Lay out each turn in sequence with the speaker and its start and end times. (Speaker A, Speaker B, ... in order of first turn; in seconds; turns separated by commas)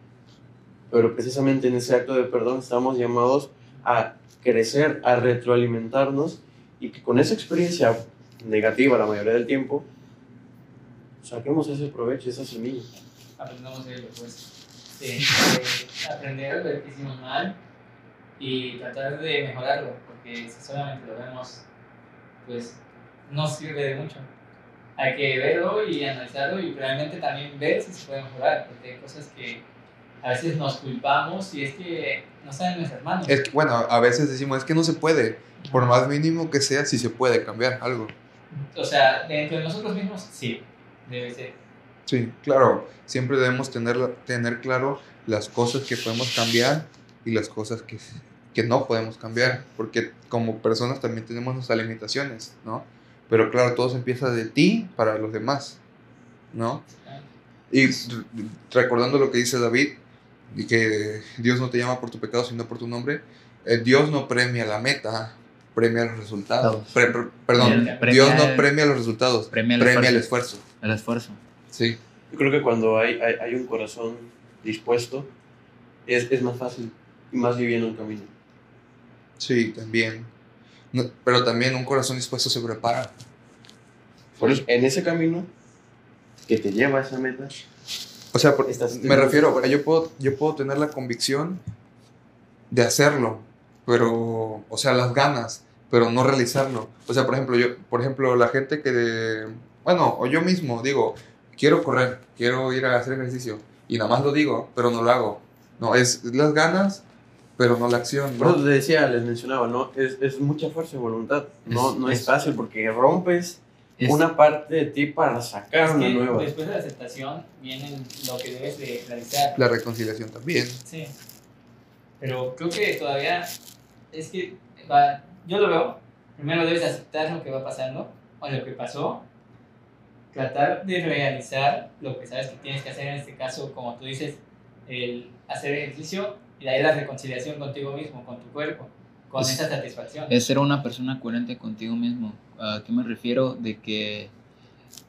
Speaker A: 0.9-9.9, Speaker A: 11.2-12.9, Speaker B: 13.4-17.6, Speaker B: 18.4-21.6, Speaker B: 22.4-24.3, Speaker B: 25.0-29.6, Speaker B: 30.2-33.4, Speaker C: 33.3-38.1, Speaker B: 35.6-35.9, Speaker B: 38.5-41.6, Speaker C: 42.1-55.8, Speaker C: 56.5-56.9, Speaker B: 56.9-57.3, Speaker C: 57.7-70.6, Speaker D: 66.6-68.7, Speaker B: 67.5-68.1, Speaker D: 69.5-71.4, Speaker C: 71.7-72.0, Speaker A: 72.3-75.3, Speaker A: 76.1-78.3, Speaker C: 79.4-80.3, Speaker C: 80.9-83.1, Speaker A: 84.4-85.5, Speaker A: 86.4-87.5, Speaker C: 88.3-91.6, Speaker A: 88.7-89.7, Speaker C: 92.7-107.0, Speaker C: 107.6-108.6, Speaker A: 108.4-116.5, Speaker D: 111.7-112.3, Speaker B: 115.8-119.6, Speaker C: 119.6-120.8, Speaker B: 120.8-121.1, Speaker B: 122.2-123.5, Speaker B: 124.1-129.2, Speaker B: 130.3-140.3, Speaker D: 139.4-139.7, Speaker D: 140.3-144.3